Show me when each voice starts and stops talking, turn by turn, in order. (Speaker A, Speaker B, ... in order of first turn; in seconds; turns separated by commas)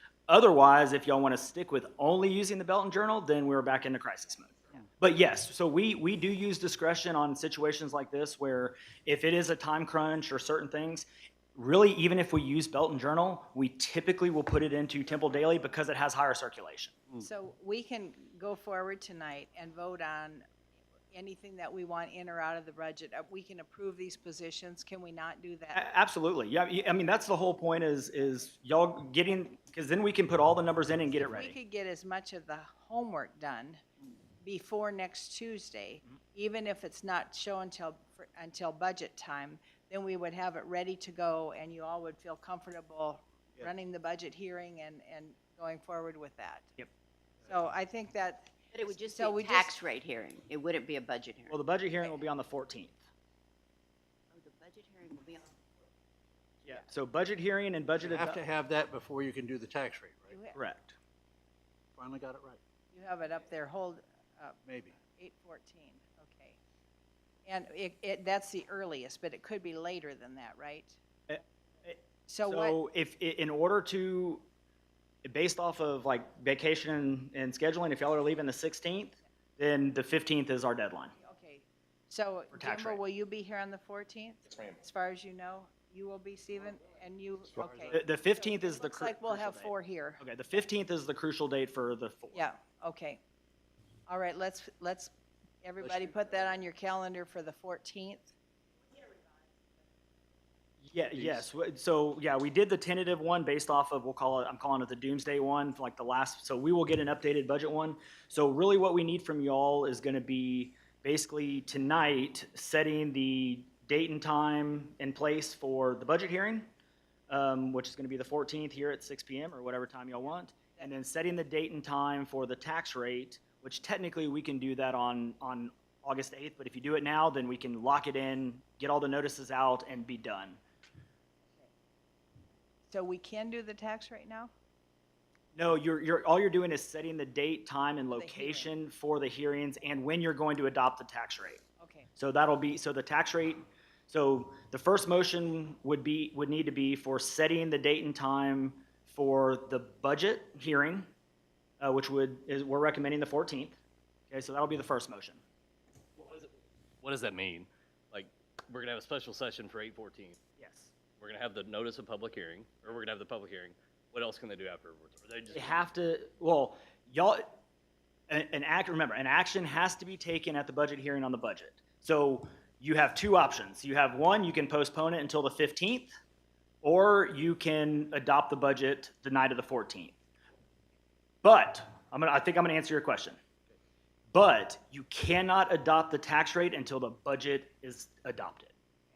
Speaker A: 0.3-17.0, Speaker B: 17.2-20.5, Speaker B: 21.1-25.8, Speaker A: 25.7-31.6, Speaker B: 31.2-33.8, Speaker B: 34.4-46.8, Speaker B: 47.5-49.7, Speaker C: 48.7-51.6, Speaker A: 51.5-53.0, Speaker C: 54.3-55.6, Speaker A: 56.7-58.4, Speaker D: 58.0-60.4, Speaker B: 60.3-60.6, Speaker A: 60.5-61.0, Speaker D: 62.0-62.6, Speaker B: 62.9-64.6, Speaker D: 64.7-65.0, Speaker B: 65.1-66.6, Speaker B: 67.5-71.0, Speaker A: 71.3-74.5, Speaker B: 72.3-72.8, Speaker A: 75.2-81.2, Speaker B: 81.2-90.2, Speaker A: 82.5-83.0, Speaker D: 87.6-87.9, Speaker A: 87.9-92.5, Speaker B: 92.3-93.2, Speaker B: 94.1-95.1, Speaker B: 95.6-98.3, Speaker D: 95.8-96.5, Speaker A: 100.8-116.7, Speaker D: 101.2-101.4, Speaker A: 117.3-130.6, Speaker B: 131.5-131.7, Speaker B: 132.9-134.5, Speaker A: 135.6-141.6, Speaker B: 138.1-138.7, Speaker B: 141.8-142.1, Speaker A: 142.2-151.1, Speaker A: 151.8-153.8, Speaker A: 154.3-155.4, Speaker E: 156.2-156.5, Speaker E: 157.0-160.4, Speaker A: 160.6-160.9, Speaker E: 161.2-165.9, Speaker A: 165.5-167.5, Speaker A: 168.3-176.1, Speaker A: 176.8-180.2, Speaker A: 181.4-183.4, Speaker A: 184.3-188.7